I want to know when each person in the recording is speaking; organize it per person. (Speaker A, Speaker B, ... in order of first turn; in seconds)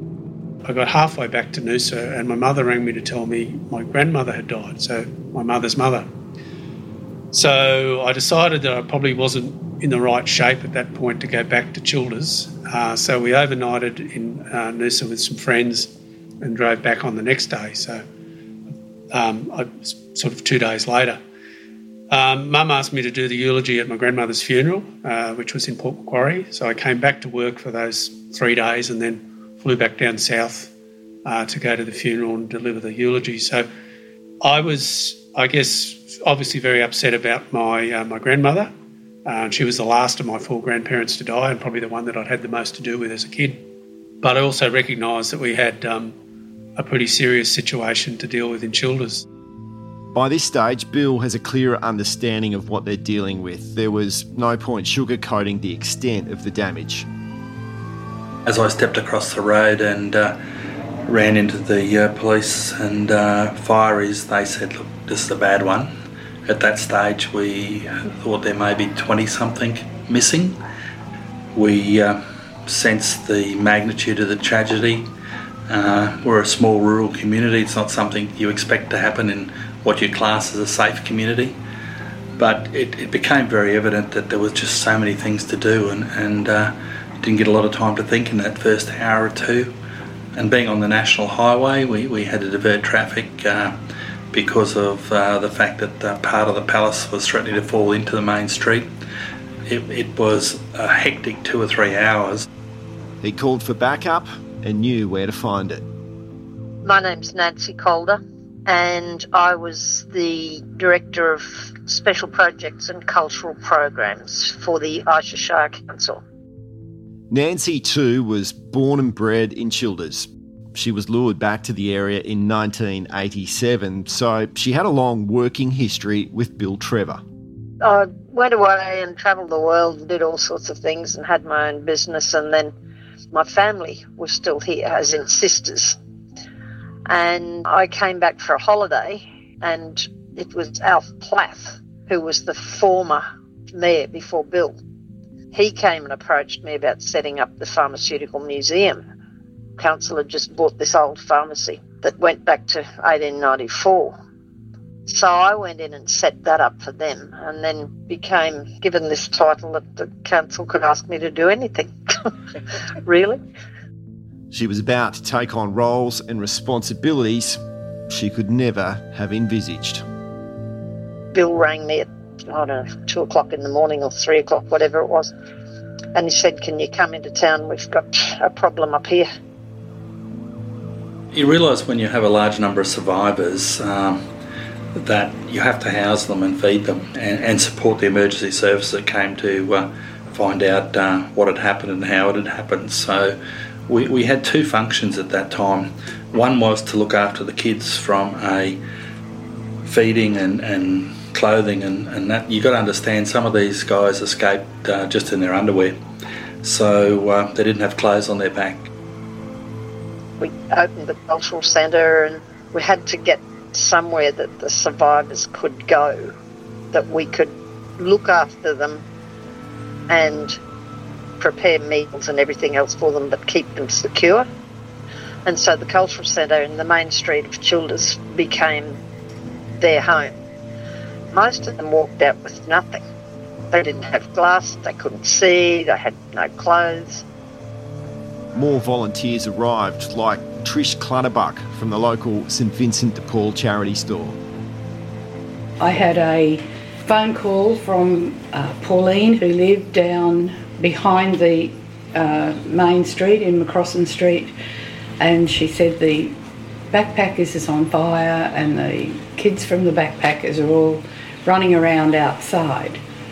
Speaker A: 0.7-6.1, 7.3-18.0, 19.1-21.2, 22.1-30.7, 31.2-33.7, 34.4-38.7, 39.2-43.6, 44.2-46.2, 46.8-49.2
Speaker B: 50.1-57.1, 103.2-105.9, 117.3-127.2, 164.5-170.0, 238.5-244.4
Speaker C: 58.5-60.4, 61.1-65.9, 66.5-70.6, 71.5-75.1, 75.7-81.6, 82.4-89.7, 90.3-93.8, 94.3-98.9, 99.7-102.5, 181.3-184.3, 184.9-198.8, 199.8-206.0, 206.6-208.9
Speaker D: 106.8-116.2, 127.8-132.7, 133.3-136.0, 137.1-144.8, 145.5-149.0, 149.8-154.2, 155.1-162.3, 163.0-163.4, 171.3-175.3, 176.2-179.3, 210.4-216.3, 216.9-219.0, 220.1-220.6, 221.4-224.5, 225.5-229.0, 229.8-230.3, 231.3-233.0, 233.7-237.2
Speaker E: 245.8-254.5, 255.2-256.4, 256.9-263.0